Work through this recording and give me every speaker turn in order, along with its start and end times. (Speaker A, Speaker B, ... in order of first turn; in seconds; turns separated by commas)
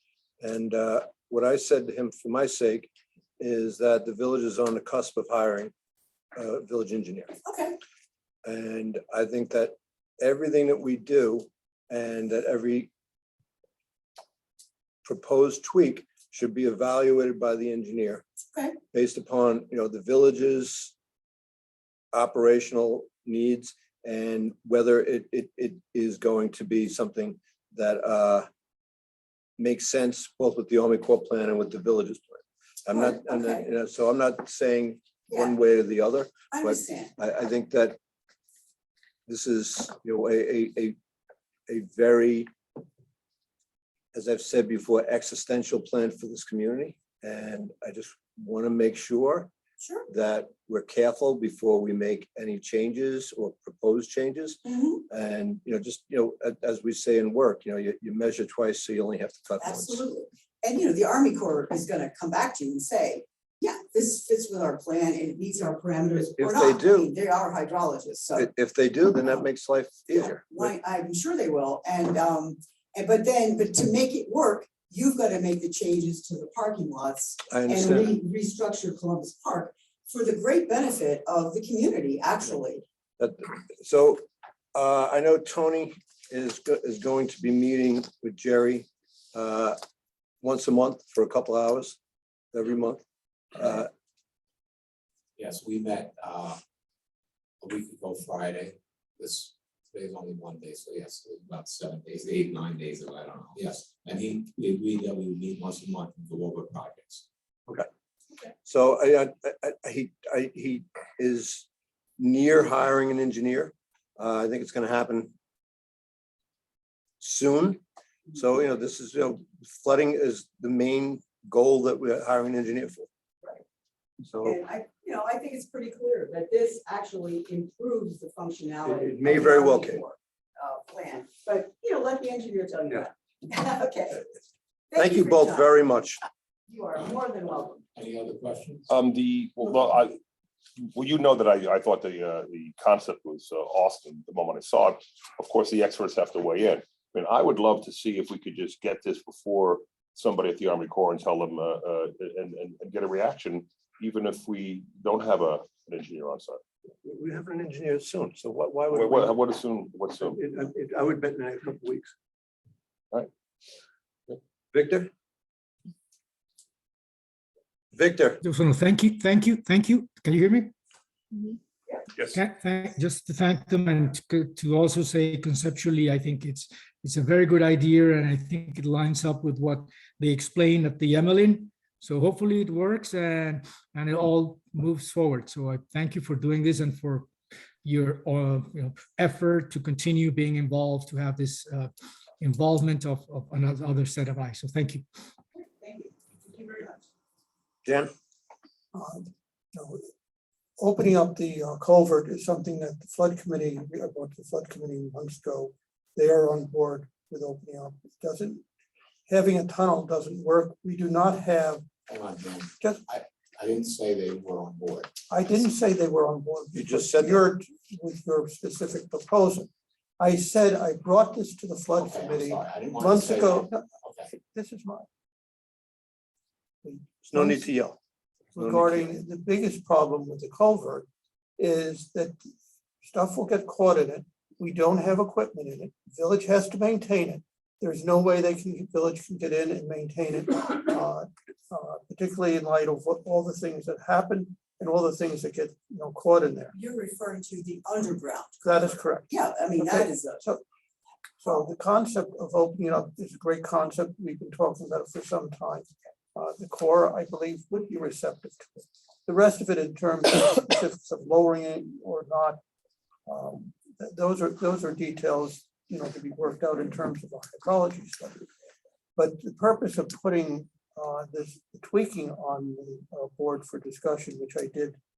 Speaker A: 0.4-5.7, Speaker A: 6.3-7.4, Speaker B: 7.4-7.8, Speaker A: 8.4-12.9, Speaker A: 15.0-18.2, Speaker B: 18.5-18.8, Speaker A: 18.9-20.9, Speaker A: 22.1-28.5, Speaker A: 29.6-38.0, Speaker B: 32.9-33.6, Speaker B: 35.3-35.6, Speaker B: 36.5-37.1, Speaker A: 39.3-41.0, Speaker A: 41.7-42.5, Speaker A: 44.1-49.5, Speaker B: 49.8-50.1, Speaker A: 50.1-60.0, Speaker B: 54.6-55.0, Speaker B: 59.6-68.5, Speaker A: 66.3-67.1, Speaker A: 68.4-70.7, Speaker B: 70.1-82.8, Speaker A: 77.5-78.2, Speaker A: 83.2-89.8, Speaker A: 90.4-92.0, Speaker A: 92.5-93.0, Speaker A: 93.5-93.9, Speaker C: 95.4-96.6, Speaker C: 97.6-107.2, Speaker A: 108.6-111.7, Speaker A: 112.2-115.3, Speaker A: 117.2-117.8, Speaker A: 118.3-123.1, Speaker A: 124.2-124.6, Speaker B: 124.4-134.2, Speaker A: 128.8-130.0, Speaker B: 134.9-136.0, Speaker A: 135.0-136.2, Speaker B: 136.7-137.8, Speaker C: 137.9-138.9, Speaker D: 138.9-140.2, Speaker D: 140.8-156.6, Speaker A: 157.0-159.3, Speaker D: 158.9-160.4, Speaker A: 160.3-162.1, Speaker A: 164.7-165.1, Speaker A: 167.9-168.4, Speaker E: 168.4-170.7, Speaker E: 172.3-187.3, Speaker E: 187.8-195.1, Speaker B: 195.6-197.1, Speaker A: 197.9-198.1, Speaker F: 198.9-200.1, Speaker F: 200.8-208.6, Speaker F: 209.3-211.9, Speaker C: 212.1-215.1, Speaker F: 215.3-225.1, Speaker A: 216.7-217.5, Speaker C: 222.0-224.3, Speaker F: 226.8-227.8, Speaker A: 227.3-228.0, Speaker F: 228.5-231.1, Speaker A: 228.6-229.1, Speaker F: 231.6-232.4, Speaker F: 233.0-246.7, Speaker B: 246.7-248.6, Speaker F: 248.6-250.6, Speaker B: 249.3-250.4, Speaker F: 251.4-262.6, Speaker F: 263.3-268.5, Speaker F: 269.2-275.0